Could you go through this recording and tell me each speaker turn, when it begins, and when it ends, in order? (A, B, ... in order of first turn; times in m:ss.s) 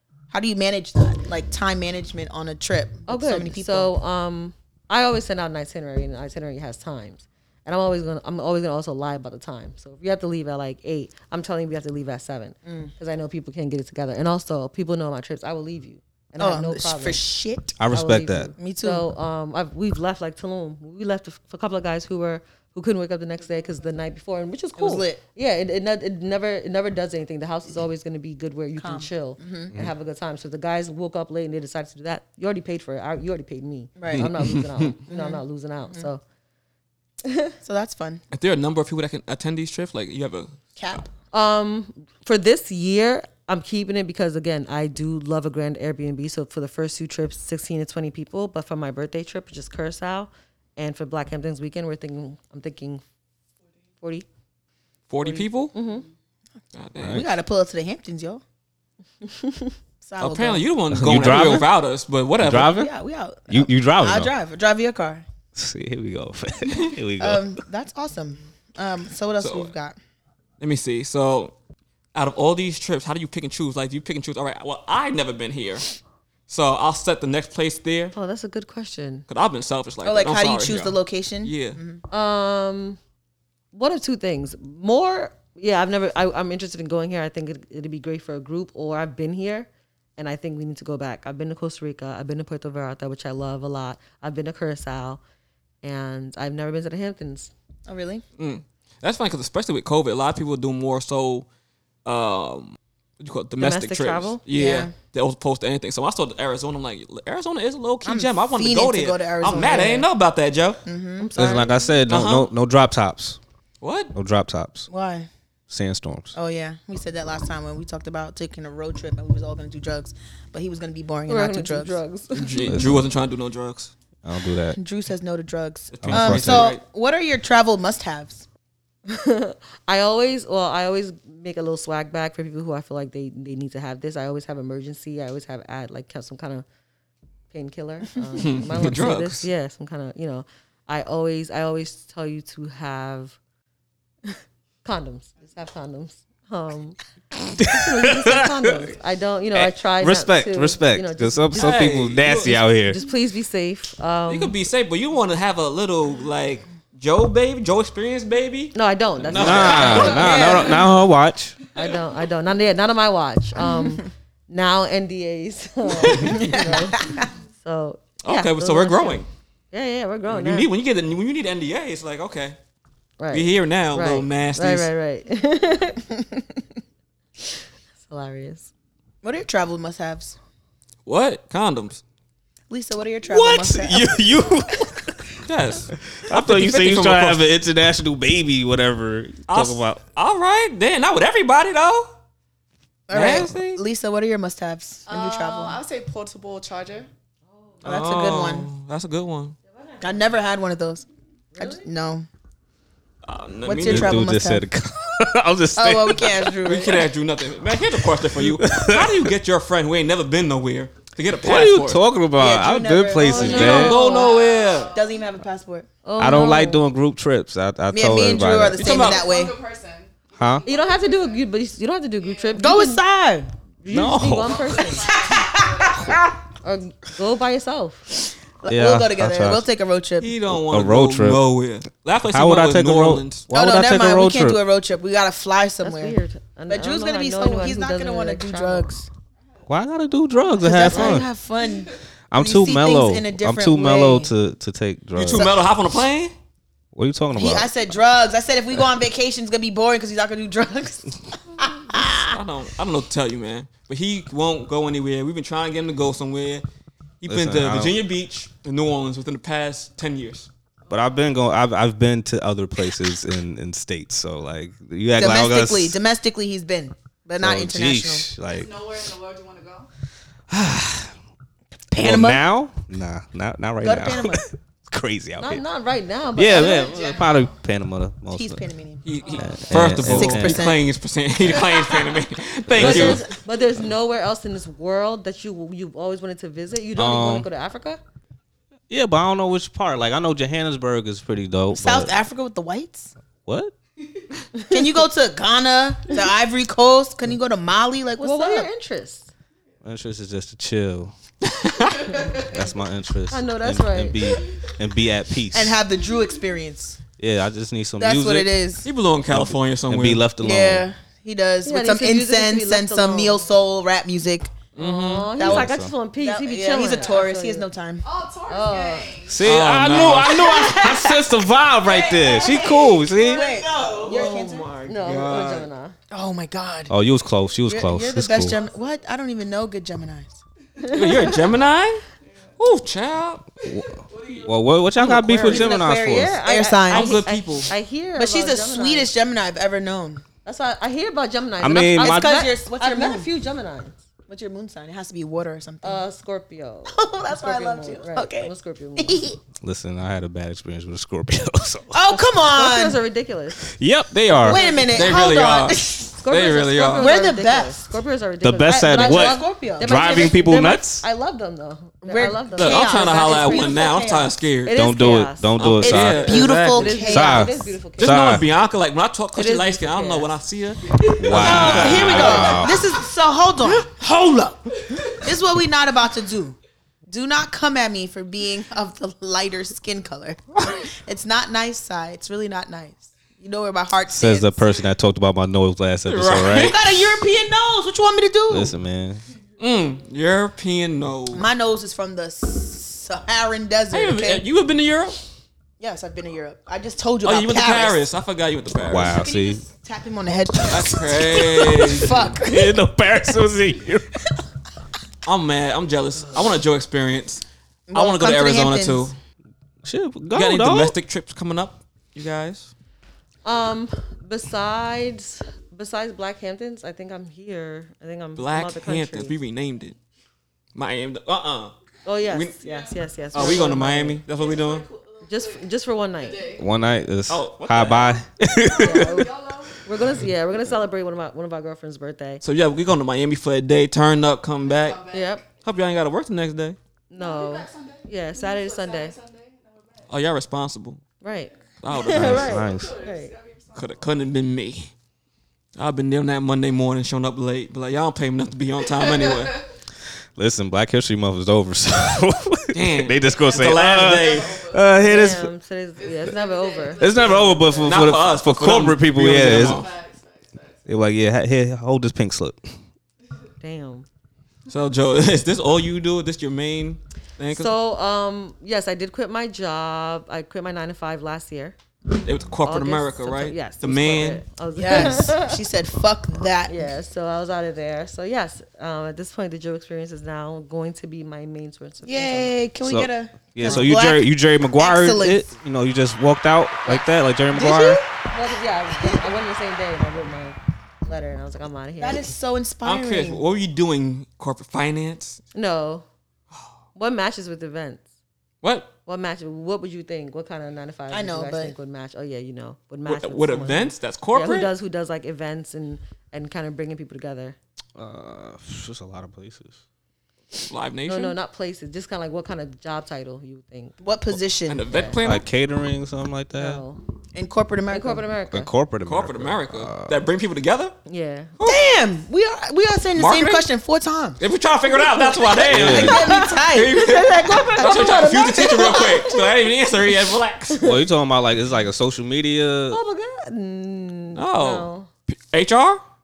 0:00.3-0:03.9 A
0:03.1-0:17.2 B
0:16.4-0:17.8 A
0:17.8-0:18.5 C
0:17.9-0:36.2 B
0:18.6-0:19.0 A
0:24.8-0:25.2 A
0:28.8-0:29.7 A
0:34.0-0:34.3 A
0:35.1-0:36.1 A
0:37.2-0:37.5 B
0:37.6-0:38.2 A
0:38.3-0:41.0 D
0:40.8-0:41.1 A
0:41.3-0:53.0 B
0:54.0-0:54.3 B
0:55.1-0:55.7 D
0:55.3-0:56.0 B
0:56.8-0:57.2 D
0:57.0-0:57.3 C
0:57.1-0:58.4 A
0:59.2-0:59.8 B
1:00.0-1:00.6 A
1:00.2-1:02.8 D
1:00.9-1:01.7 C
1:02.4-1:02.9 C
1:02.6-1:05.2 A
1:03.5-1:04.3 C
1:05.6-1:07.6 C
1:07.2-1:10.0 A
1:09.4-1:09.7 D
1:10.6-1:11.5 D
1:12.2-1:16.0 D
1:16.5-1:18.1 D
1:18.1-1:19.2 B
1:19.3-1:21.8 D
1:20.0-1:22.0 A
1:22.1-1:23.0 B
1:23.7-1:35.2 B
1:35.8-1:37.5 B
1:37.9-1:38.2 A
1:38.4-1:41.5 D
1:42.0-1:50.8 D
1:43.6-1:44.4 B
1:44.5-1:44.9 A
1:48.1-1:50.0 A
1:49.5-1:50.1 B
1:50.8-1:51.4 A
1:51.2-1:52.2 B
1:51.4-1:53.4 C
1:52.1-1:52.5 D
1:53.8-1:54.1 D
1:54.1-1:54.9 C
1:54.9-1:55.3 A
1:55.7-1:56.4 C
1:56.3-2:02.0 A
2:01.3-2:02.8 B
2:02.4-2:03.9 D
2:02.6-2:03.0 C
2:04.2-2:04.8 C
2:04.8-2:08.5 A
2:05.9-2:06.8 D
2:06.0-2:06.7 C
2:09.1-2:16.6 B
2:17.5-2:23.4 B
2:18.4-2:19.5 D
2:24.8-2:27.0 B
2:27.6-2:34.6 B
2:27.6-2:28.7 C
2:29.5-2:33.0 C
2:31.6-2:32.6 D
2:34.3-2:40.4 D
2:38.7-2:40.6 B
2:39.3-2:41.6 C
2:40.1-2:40.8 A
2:41.7-2:50.7 B
2:45.9-2:46.6 D
2:46.2-2:47.3 A
2:48.2-2:49.3 D
2:50.3-2:52.6 D
2:53.2-2:56.1 B
2:53.3-2:54.9 D
2:58.0-2:58.7 B
2:59.2-3:00.4 A
3:01.1-3:02.0 D
3:02.7-3:04.1 A
3:03.3-3:05.3 C
3:05.5-3:07.4 D
3:06.2-3:10.0 C
3:09.5-3:12.1 D
3:13.1-3:15.8 A
3:13.1-3:13.8 D
3:15.1-3:17.1 E
3:17.5-3:17.9 B
3:17.8-3:18.7 A
3:17.8-3:19.6 D
3:19.7-3:20.3 B
3:20.0-3:21.1 A
3:21.5-3:21.9 B
3:21.6-3:22.3 A
3:23.2-3:24.3 D
3:23.6-3:24.6 A
3:23.7-3:26.6 C
3:25.8-3:27.1 A
3:26.6-3:32.0 D
3:28.3-3:29.3 C
3:31.4-3:34.0 C
3:32.4-3:34.3 A
3:33.3-3:34.4 B
3:33.5-3:34.9 D
3:33.9-3:35.2 E
3:34.9-3:35.9 A
3:36.0-3:36.8 B
3:36.2-3:39.0 C
3:37.9-3:39.6 A
3:38.8-3:39.3 D
3:38.9-3:41.5 E
3:40.4-3:40.6 C
3:40.6-3:43.0 B
3:42.2-3:42.8 E
3:42.6-3:43.5 A
3:43.8-3:45.2 B
3:43.9-3:44.8 C
3:44.4-3:46.2 E
3:45.2-3:46.3 A
3:46.6-3:48.1 B
3:48.6-3:50.3 A
3:48.7-3:49.7 C
3:50.2-3:53.5 D
3:50.5-3:51.4 C
3:52.3-3:54.6 C
3:53.5-3:56.2 A
3:55.8-3:58.9 B
3:56.7-3:59.1 A
3:59.7-4:01.3 C
4:00.6-4:04.3 A
4:00.9-4:01.2 B
4:02.3-4:05.5 C
4:05.2-4:06.3 D
4:05.2-4:05.6 A
4:06.9-4:07.7 C
4:07.4-4:12.3 A
4:12.2-4:16.6 D
4:17.2-4:20.5 D
4:17.3-4:18.0 C
4:20.9-4:26.0 C
4:25.2-4:28.3 A
4:27.4-4:28.7 C
4:28.5-4:29.9 E
4:30.5-4:31.1 C
4:31.9-4:32.4 A
4:32.0-4:35.6 C
4:33.8-4:34.4 A
4:35.4-4:37.0 B
4:36.4-4:38.6 C
4:36.5-4:37.4 E
4:38.3-4:39.1 A
4:39.0-4:43.2 D
4:39.2-4:39.7 E
4:39.3-4:40.7 C
4:39.8-4:40.8 A
4:42.7-4:43.2 C
4:42.8-4:48.0 B
4:47.0-4:47.5 C
4:48.9-4:52.1 C
4:51.7-4:53.1 A
4:53.5-4:53.7 C
4:54.7-4:58.7 A
4:58.2-4:59.3 B
4:59.8-5:01.1 C
5:01.4-5:02.2 D
5:02.0-5:02.5 E
5:02.4-5:05.8 C
5:03.3-5:04.4 B
5:05.5-5:07.0 A
5:07.2-5:08.5 C
5:08.0-5:08.9 A
5:08.8-5:10.2 D
5:09.3-5:10.9 C
5:10.4-5:14.5 A
5:11.6-5:13.5 B
5:14.8-5:15.3 D
5:14.8-5:17.7 B
5:15.4-5:15.9 C
5:15.4-5:18.0 A
5:16.8-5:17.2 E
5:18.0-5:19.5 E
5:18.5-5:19.2 B
5:19.3-5:23.5 C
5:19.4-5:20.8 D
5:21.8-5:24.5 E
5:23.2-5:24.7 A
5:24.1-5:26.0 B
5:24.1-5:25.7 D
5:26.1-5:26.9 A
5:26.9-5:28.6 C
5:27.7-5:30.4 A
5:30.8-5:31.4 B
5:30.9-5:32.0 D
5:32.6-5:33.5 D
5:33.6-5:36.4 C
5:34.1-5:34.5 E
5:35.0-5:35.6 D
5:35.2-5:37.1 A
5:35.4-5:39.1 B
5:36.9-5:37.7 D
5:38.2-5:40.2 A
5:40.4-5:44.0 B
5:41.6-5:42.4 C
5:42.0-5:43.3 A
5:44.3-5:46.0 A
5:45.8-5:49.2 B
5:46.9-5:49.4 A
5:49.6-5:52.0 C
5:51.9-5:53.0 A
5:52.5-5:53.7 B
5:53.8-5:54.6 C
5:54.4-5:55.2 B
5:54.4-5:56.2 A
5:54.9-5:57.1 D
5:56.2-6:03.7 B
5:57.0-5:57.9 A
5:58.4-6:01.0 C
5:58.7-6:00.2 A
6:02.0-6:04.3 A
6:02.6-6:04.8 D
6:04.6-6:05.6 B
6:04.7-6:06.4 C
6:05.6-6:07.1 D
6:05.8-6:07.7 A
6:06.2-6:08.2 B
6:06.9-6:08.4 C
6:08.0-6:12.6 D
6:09.4-6:10.4 B
6:10.9-6:11.4 E
6:11.2-6:12.8 C
6:11.3-6:14.6 A
6:12.7-6:13.0 E
6:14.8-6:15.2 E
6:15.2-6:16.6 A
6:17.1-6:24.8 A
6:24.1-6:26.9 C
6:26.1-6:27.0 D
6:26.5-6:28.7 A
6:28.5-6:29.2 C
6:29.6-6:31.5 D
6:31.3-6:34.5 A
6:33.9-6:35.2 D
6:35.8-6:38.1 A
6:37.2-6:39.2 D
6:38.9-6:39.6 C
6:39.1-6:42.8 A
6:40.7-6:42.3 D
6:42.4-6:44.2 C
6:45.2-6:49.1 D
6:47.9-6:49.1 A
6:49.8-6:51.0 C
6:50.3-6:52.7 D
6:53.4-6:59.4 B
6:58.4-7:00.0 D
7:00.8-7:01.7 D
7:02.0-7:04.2 B
7:02.3-7:02.6 D
7:02.6-7:03.8 E
7:03.3-7:04.9 D
7:04.3-7:05.7 E
7:05.3-7:06.5 B
7:06.2-7:06.7 E
7:06.6-7:09.3 C
7:07.3-7:08.2 D
7:08.6-7:09.8 E
7:08.8-7:12.4 B
7:12.4-7:15.0 D
7:14.6-7:15.4 E
7:15.1-7:15.4 B
7:15.6-7:16.8 D
7:17.1-7:19.2 B
7:17.2-7:20.1 E
7:20.1-7:21.0 D
7:21.2-7:23.3 B
7:21.8-7:22.6 D
7:22.1-7:23.0 C
7:22.2-7:24.1 E
7:23.8-7:24.9 D
7:25.8-7:29.6 D
7:30.4-7:35.5 C
7:32.7-7:34.6 D
7:33.2-7:34.8 E
7:35.0-7:38.1 B
7:36.0-7:37.9 E
7:37.0-7:39.8 C
7:37.9-7:39.9 D
7:39.3-7:40.8 E
7:40.9-7:42.7 C
7:43.6-7:44.1 B
7:44.7-7:47.7 D
7:47.5-7:51.8 B
7:52.2-7:54.4 D
7:52.6-7:55.6 B
7:54.8-7:56.9 A
7:56.7-8:02.5 B
8:02.1-8:05.5 A
8:02.8-8:08.0 C
8:03.6-8:03.9 B
8:07.5-8:08.1 A
8:08.3-8:12.3 B
8:12.0-8:13.4 A
8:12.8-8:15.4 D
8:15.5-8:16.1 B
8:17.0-8:18.0 B
8:18.6-8:18.9 D
8:19.1-8:27.6 B
8:21.1-8:21.8 A
8:23.1-8:24.7 D
8:28.0-8:29.8 C
8:30.7-8:31.4 D
8:31.1-8:34.0 B
8:34.0-8:34.8 A
8:34.7-8:35.4 D
8:34.9-8:35.2 B
8:35.2-8:36.8 C
8:36.5-8:37.0 B
8:37.3-8:38.3 A
8:37.9-8:38.7 B
8:38.5-8:40.2 C
8:39.0-8:41.0 D
8:41.1-8:41.6 B
8:41.6-8:41.8 D
8:41.6-8:44.4 A
8:43.2-8:43.7 D
8:44.4-8:50.8 D
8:44.9-8:49.7 B
8:45.7-8:46.2 C
8:45.7-8:49.2 A
8:50.7-8:51.0 B
8:50.8-8:53.0 C
8:52.9-8:55.1 B
8:54.3-8:56.0 D